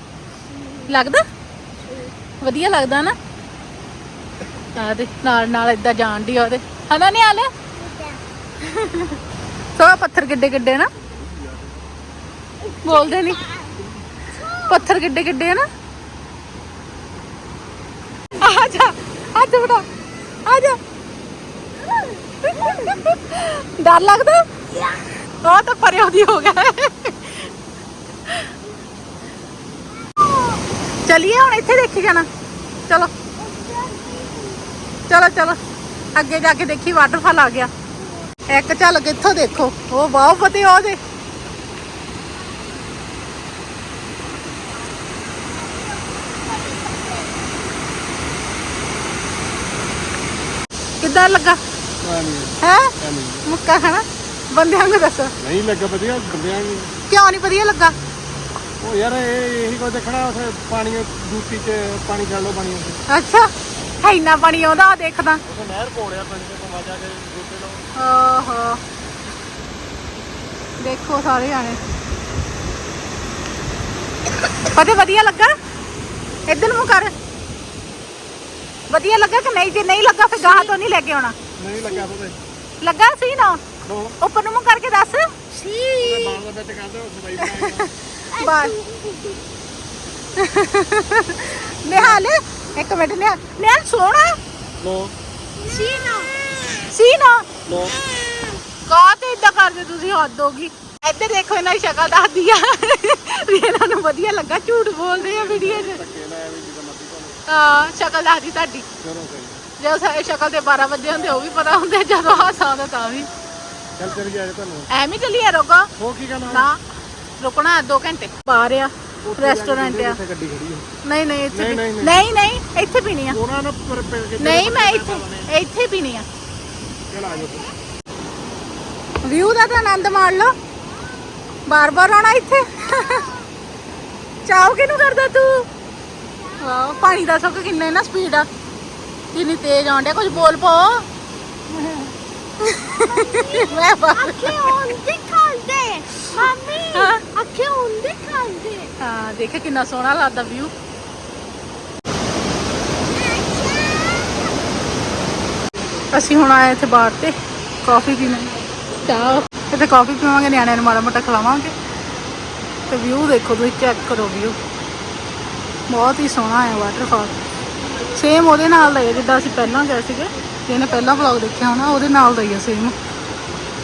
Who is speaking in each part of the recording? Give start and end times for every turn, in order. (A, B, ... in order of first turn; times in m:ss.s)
0:00.6-0:00.9 A
0:00.8-0:01.2 B
0:02.4-0:03.1 B
0:04.7-0:07.5 B
0:07.8-0:08.2 A
0:08.6-0:09.2 B
0:09.8-0:10.9 B
0:11.0-0:11.7 C
0:12.6-0:14.9 A
0:12.8-0:13.4 B
0:14.7-0:15.6 B
0:18.4-0:19.8 B
0:20.4-0:20.8 B
0:22.4-0:22.9 A
0:22.4-0:24.4 B
0:25.4-0:27.5 B
0:28.3-0:28.5 B
0:30.1-0:30.6 A
0:31.0-0:32.2 B
0:33.4-0:34.7 A
0:35.1-0:35.6 B
0:36.1-0:37.7 B
0:38.5-0:41.0 B
0:51.0-0:51.6 B
0:52.0-0:53.5 C
0:52.6-0:52.9 B
0:53.4-0:55.3 B
0:55.4-0:56.9 C
0:57.1-0:57.9 B
0:58.8-1:03.0 C
1:03.1-1:03.5 B
1:04.0-1:05.4 B
1:05.5-1:07.8 C
1:08.0-1:08.8 B
1:10.8-1:11.8 B
1:14.7-1:15.5 B
1:16.5-1:17.1 B
1:18.9-1:21.3 B
1:21.6-1:22.4 C
1:22.8-1:23.6 B
1:23.8-1:24.1 C
1:24.2-1:25.3 B
1:25.5-1:26.4 A
1:26.0-1:27.9 C
1:27.4-1:28.7 B
1:28.3-1:29.4 A
1:30.4-1:34.3 B
1:31.9-1:32.2 C
1:34.8-1:35.1 C
1:35.6-1:36.5 A
1:36.9-1:37.4 B
1:37.6-1:38.0 C
1:38.9-1:46.0 B
1:45.1-1:47.4 C
1:47.5-1:48.8 B
1:49.0-1:49.6 C
1:49.8-1:53.3 B
1:54.0-1:54.9 C
1:54.9-1:55.9 B
1:56.0-1:56.7 C
1:56.5-1:56.8 B
1:57.4-2:00.2 B
1:59.2-2:00.8 C
2:01.0-2:03.4 B
2:01.5-2:02.2 C
2:03.3-2:05.5 C
2:04.4-2:06.2 B
2:07.1-2:07.7 C
2:09.2-2:10.5 B
2:11.7-2:13.3 B
2:14.4-2:15.6 B
2:16.6-2:18.5 B
2:19.3-2:21.0 B
2:22.6-2:24.8 B
2:22.8-2:28.9 A
2:29.0-2:30.7 B
2:33.0-2:34.4 A
2:36.1-2:41.7 B
2:42.9-2:44.6 B
2:45.9-2:47.4 B
2:48.0-2:52.9 B